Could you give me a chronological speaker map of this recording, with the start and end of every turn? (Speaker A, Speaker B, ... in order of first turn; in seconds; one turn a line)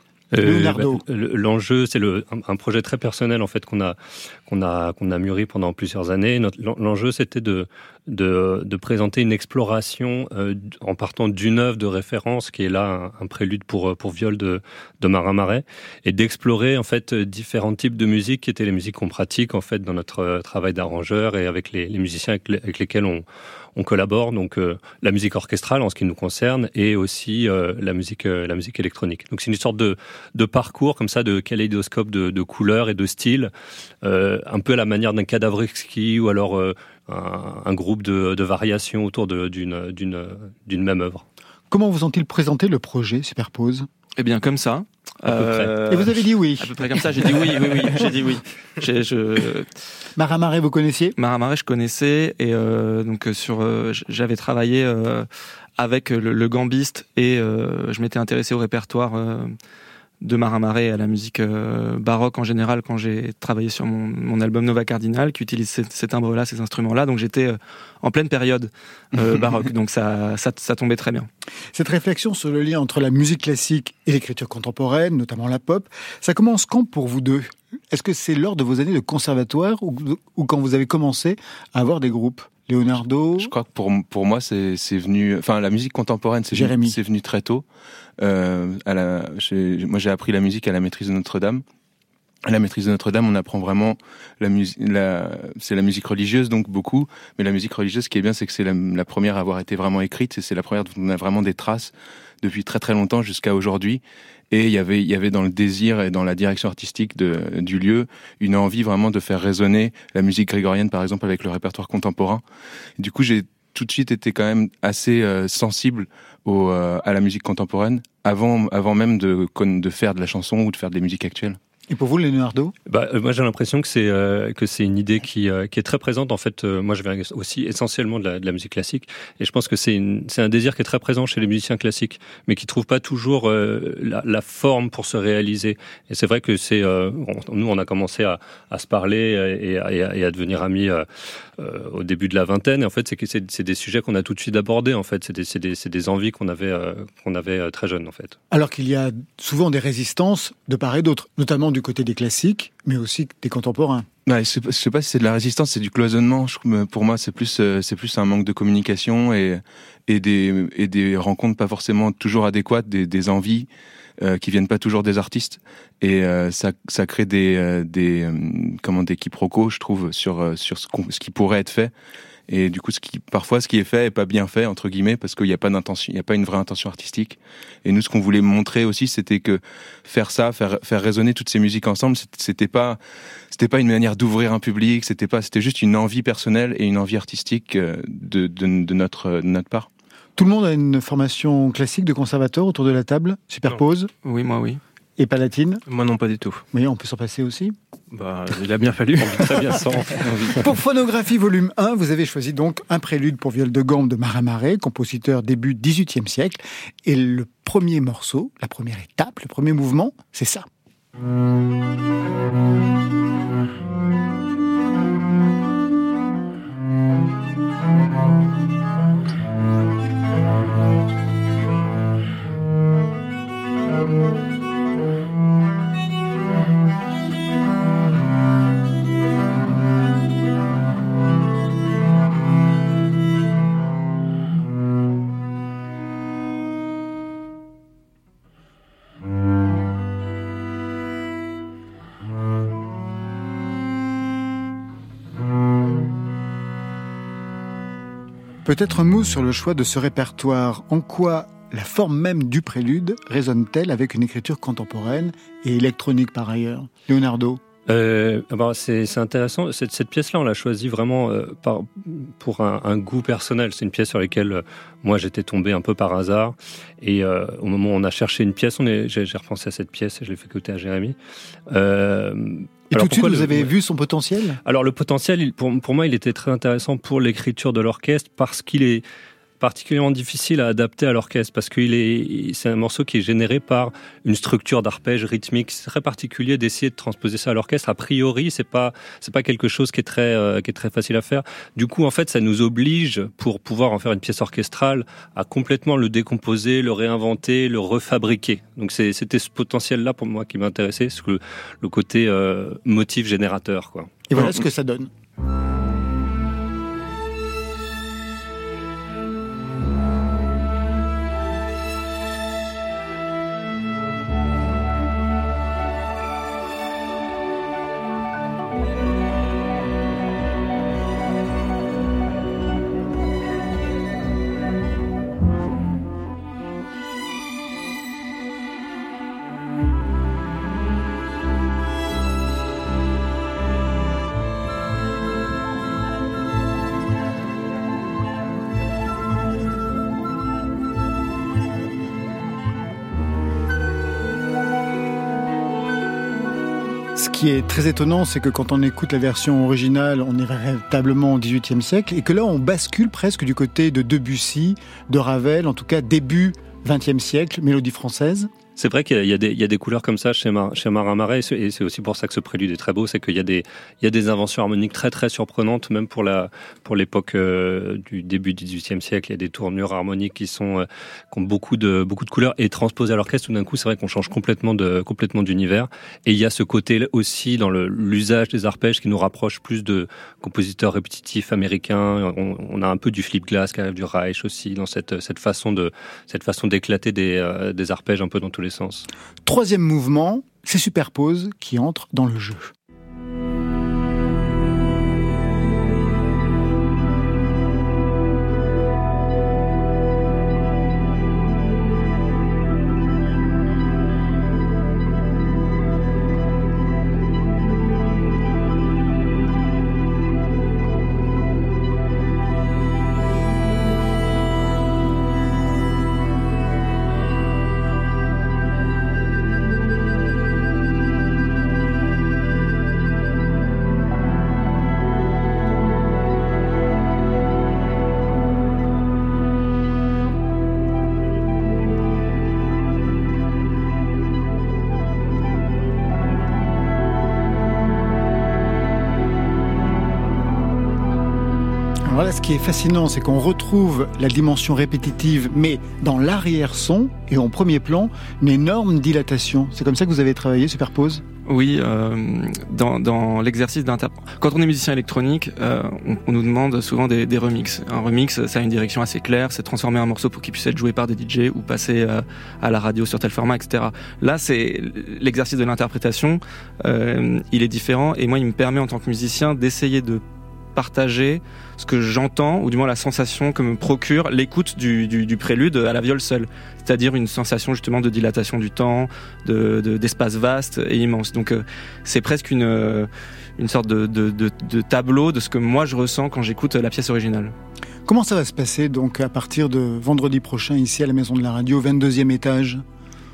Speaker A: 0.3-33.5
Speaker B: 0.4-1.0
Speaker A: 34.0-41.2
Speaker B: 41.7-43.9
Speaker C: 44.2-49.7
Speaker A: 45.3-45.9
Speaker B: 45.9-46.8
Speaker B: 50.2-51.1
Speaker C: 51.2-59.6
Speaker C: 60.2-71.3
Speaker B: 71.7-83.5
Speaker D: 83.4-87.7
Speaker B: 86.5-87.0
Speaker D: 88.2-91.6
Speaker D: 92.5-112.4
Speaker D: 113.0-121.6
Speaker B: 121.9-122.8
Speaker A: 122.9-141.1
Speaker A: 141.6-148.4
Speaker B: 148.5-154.1
Speaker D: 154.3-163.7
Speaker D: 164.2-171.9
Speaker D: 172.5-183.0
Speaker D: 183.5-189.9
Speaker B: 190.4-194.1
Speaker C: 194.2-194.8
Speaker B: 195.2-195.8
Speaker E: 195.9-196.7
Speaker B: 196.7-197.8
Speaker E: 198.1-200.5
Speaker A: 199.2-200.7
Speaker B: 200.6-210.7
Speaker B: 248.6-257.6
Speaker A: 257.9-271.2
Speaker A: 271.7-273.7
Speaker B: 272.9-274.6
Speaker A: 274.6-279.1
Speaker A: 279.6-304.2
Speaker B: 304.3-305.1
Speaker B: 347.1-358.5
Speaker A: 358.8-389.1
Speaker B: 389.4-392.7
Speaker B: 442.1-451.2
Speaker C: 451.5-470.2
Speaker C: 470.8-487.5
Speaker B: 488.1-492.8